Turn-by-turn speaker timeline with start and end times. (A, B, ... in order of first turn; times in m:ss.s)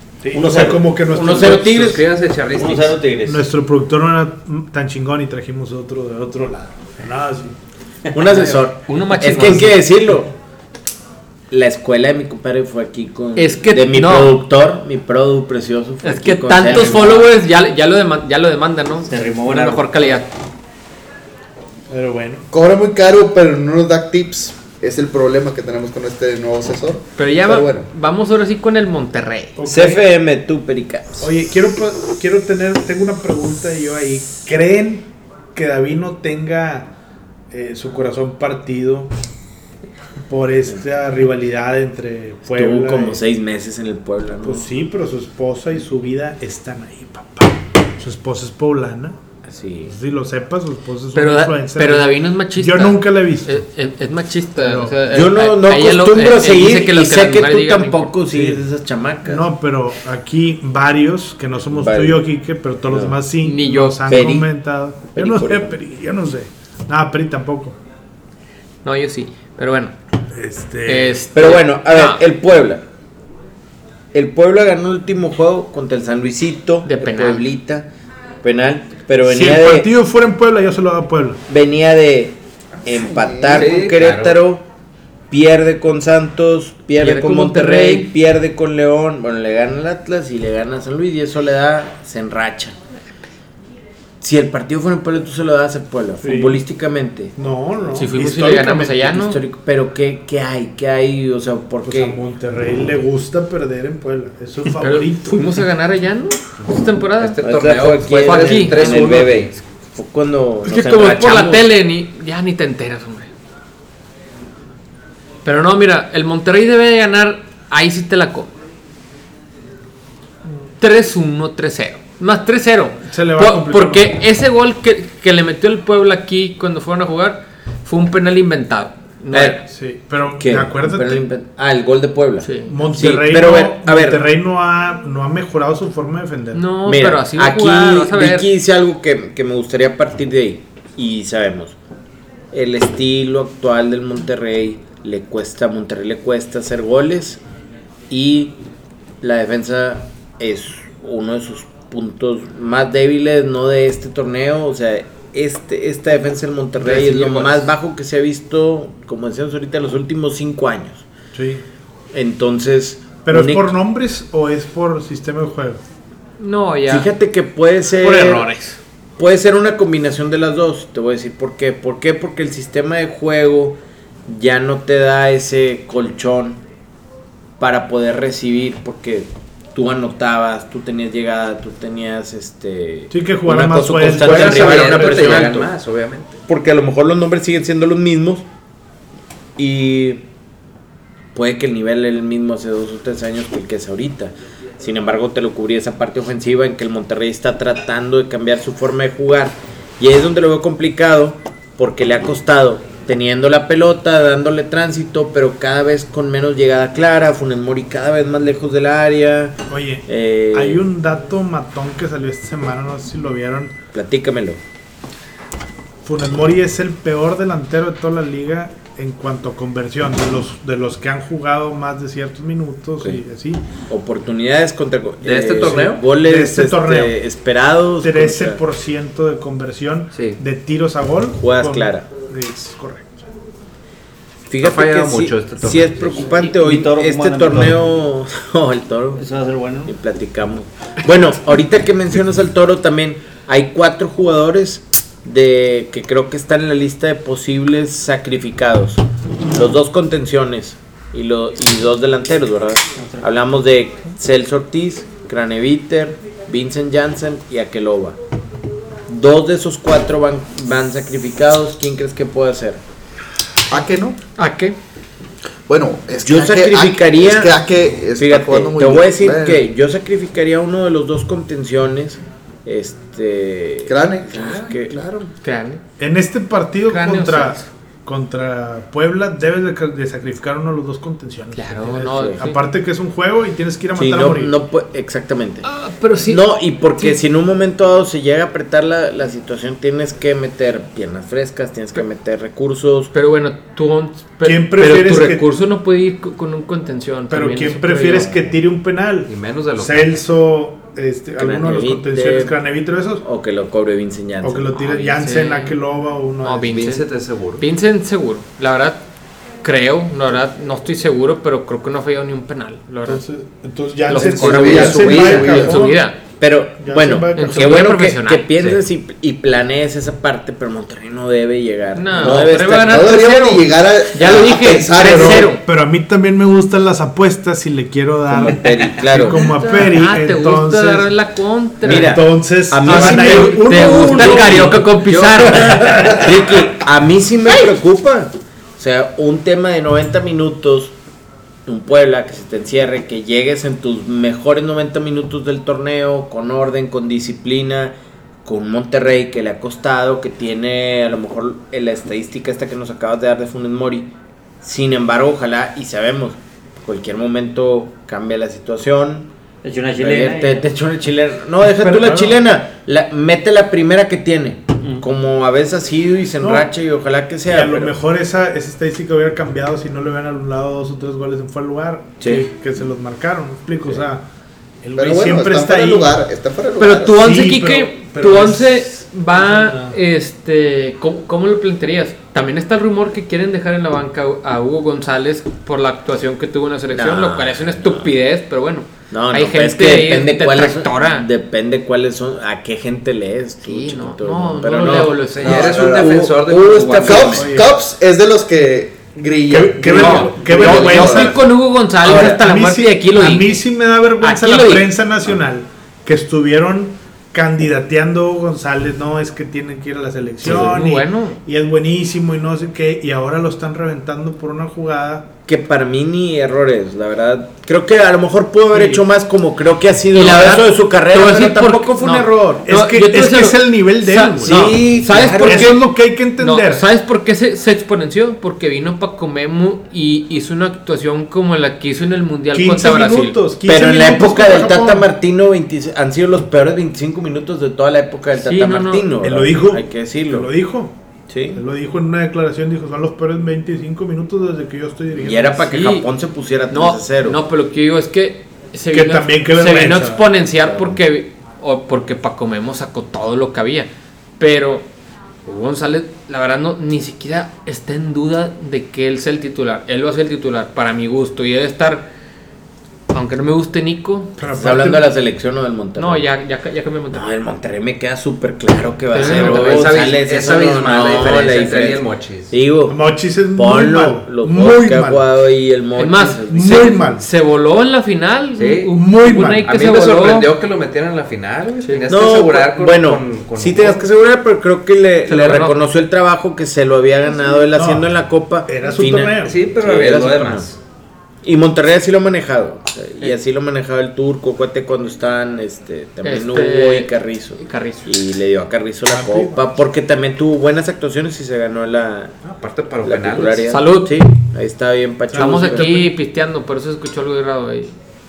0:00.2-0:02.0 A
0:00.3-0:01.1 B
0:01.1-0:02.0 C
0:01.2-0:03.0 D
0:02.5-0:03.4 B
0:03.2-0:07.6 A
0:08.1-0:10.3 C
0:08.2-0:08.6 B
0:08.9-0:09.8 E
0:09.2-0:09.7 B
0:11.5-0:17.3 C
0:13.4-0:14.4 E
0:16.0-0:20.3 E
0:19.0-0:20.0 B
0:21.9-0:22.4 A
0:22.5-0:27.9 F
0:27.2-0:29.6 E
0:29.6-0:30.0 A
0:29.6-0:31.3 C
0:31.2-0:36.9 A
0:37.5-0:39.1 A
0:40.2-0:43.2 A
0:42.5-0:44.7 C
0:44.4-0:49.2 A
0:49.4-0:49.9 C
0:49.9-0:53.6 A
0:51.1-0:58.1 E
0:54.6-0:55.0 A
0:55.1-0:59.4 C
0:58.3-0:58.6 A
0:59.2-1:07.8 A
1:01.7-1:02.2 C
1:02.9-1:03.2 C
1:03.4-1:04.2 E
1:04.1-1:04.5 C
1:05.1-1:05.7 C
1:08.8-1:09.9 E
1:10.3-1:11.2 A
1:10.8-1:12.2 E
1:11.3-1:12.8 C
1:14.1-1:17.9 C
1:16.8-1:17.5 E
1:18.4-1:19.9 C
1:19.2-1:21.4 A
1:21.5-1:24.6 C
1:22.8-1:23.8 F
1:23.5-1:24.4 D
1:25.3-1:32.7 C
1:27.0-1:28.1 E
1:34.2-1:37.3 C
1:36.2-1:36.6 A
1:37.4-1:39.0 A
1:37.9-1:39.4 E
1:39.0-1:42.2 C
1:41.8-1:45.5 A
1:44.8-1:47.4 E
1:47.2-1:49.5 D
1:47.4-1:51.7 C
1:48.2-1:49.1 E
1:50.6-1:53.3 E
1:55.4-1:58.5 E
2:00.8-2:09.6 E
2:03.1-2:04.1 A
2:09.3-2:09.6 C
2:09.7-2:11.2 A
2:10.4-2:14.2 C
2:12.4-2:12.8 E
2:12.7-2:16.6 A
2:16.5-2:18.5 E
2:16.8-2:21.8 C
2:22.5-2:27.4 C
2:28.1-2:28.6 C
2:29.2-2:41.0 C
2:36.8-2:37.7 E
2:41.3-2:41.6 A
2:42.1-2:43.7 C
2:43.2-2:45.8 A
2:46.4-2:47.1 E
2:46.9-2:48.5 C
2:48.0-2:48.8 E
2:49.2-2:56.6 C
2:57.6-3:05.7 C
3:03.1-3:05.4 A
3:04.1-3:06.4 D
3:06.5-3:08.4 C
3:09.6-3:10.2 C
3:11.3-3:30.8 C
3:29.7-3:33.7 A
3:33.9-3:34.6 C
3:36.0-3:43.6 A
3:43.9-3:48.6 C
3:45.2-3:46.0 D
3:45.7-3:47.2 A
3:48.0-3:53.2 A
3:50.1-3:50.4 D
3:51.4-3:52.1 C
3:54.5-3:59.2 C
3:54.6-3:56.3 D
3:56.3-3:58.0 B
3:59.2-3:59.9 B
3:59.8-4:18.2 C
4:19.1-4:22.8 C
4:23.7-4:24.2 F
4:24.4-4:24.8 E
4:25.7-4:29.6 F
4:26.2-4:27.6 C
4:28.2-4:35.0 C
4:33.9-4:35.3 F
4:35.4-4:35.8 E
4:36.0-4:44.5 A
4:36.9-4:37.7 E
4:41.5-4:42.6 E
4:42.0-4:42.4 C
4:44.0-4:45.7 C
4:45.6-4:46.4 E
4:46.2-4:53.1 C
4:53.1-4:58.5 E
4:54.4-4:55.4 A
4:57.3-5:03.2 A
4:59.3-5:00.1 D
5:01.4-5:02.5 C
5:03.2-5:04.7 C
5:04.4-5:06.8 A
5:04.8-5:05.8 E
5:06.4-5:07.0 E
5:06.7-5:07.6 D
5:07.6-5:09.0 E
5:09.6-5:13.2 E
5:13.0-5:16.0 A
5:14.1-5:16.2 E
5:14.2-5:15.9 F
5:14.9-5:15.5 D
5:16.4-5:22.9 C
5:16.8-5:17.8 A
5:17.3-5:18.5 E
5:21.9-5:25.6 E
5:22.2-5:25.5 F
5:25.0-5:31.1 A
5:28.3-5:29.4 C
5:29.1-5:32.2 E
5:31.8-5:34.9 C
5:31.8-5:36.4 A
5:32.8-5:36.2 E
5:35.1-5:35.3 D
5:35.4-5:40.9 C
5:41.6-5:59.3 C
5:59.6-6:00.6 B
6:00.0-6:07.9 C
6:01.8-6:02.4 A
6:06.4-6:06.7 A
6:07.5-6:14.2 A
6:12.2-6:12.4 C
6:14.8-6:16.2 A
6:15.0-6:17.2 F
6:16.8-6:31.3 E
6:17.1-6:20.0 A
6:26.9-6:28.1 C
6:29.1-6:37.5 C
6:33.6-6:35.9 E
6:35.3-6:37.4 D
6:35.8-6:36.1 F
6:37.0-6:41.4 F
6:37.3-6:37.7 A
6:39.5-6:41.5 A
6:39.8-6:43.6 E
6:42.0-6:55.3 A
6:42.1-6:42.3 C
6:44.2-6:44.9 E
6:50.4-6:50.8 C
6:50.4-6:51.4 E
6:55.4-7:02.2 C
6:58.7-6:59.0 A
7:00.1-7:05.8 E
7:01.9-7:04.8 A
7:04.4-7:05.7 C
7:05.4-7:06.8 A
7:06.4-7:13.4 E
7:12.5-7:15.1 A
7:13.6-7:20.5 C
7:18.4-7:19.1 E
7:19.2-7:20.9 A
7:21.3-7:21.6 C
7:21.6-7:25.6 A
7:25.1-7:27.4 C
7:25.6-7:26.1 E
7:26.7-7:34.8 E
7:28.9-7:30.2 A
7:30.6-7:31.0 C
7:35.4-7:42.1 E
7:43.1-7:44.3 E
7:44.4-7:45.1 A
7:44.5-7:46.3 C
7:46.0-7:47.3 E
7:47.1-7:53.0 C
7:49.1-7:50.0 E
7:49.2-7:52.5 D
7:52.9-7:55.2 A
7:53.5-7:57.0 C
7:56.0-8:00.5 E
7:56.4-7:57.2 A
7:58.6-7:58.9 D
7:58.8-7:59.6 A
7:59.6-8:04.1 D
8:01.8-8:02.1 E
8:02.1-8:10.7 C
8:05.3-8:05.8 E
8:07.7-8:08.1 A
8:08.6-8:09.6 A
8:09.4-8:10.8 D
8:11.4-8:22.4 C
8:16.2-8:18.1 E
8:19.1-8:19.7 A
8:22.6-8:23.7 D
8:23.0-8:25.9 C
8:23.7-8:24.2 E
8:25.3-8:26.1 A
8:25.3-8:27.9 E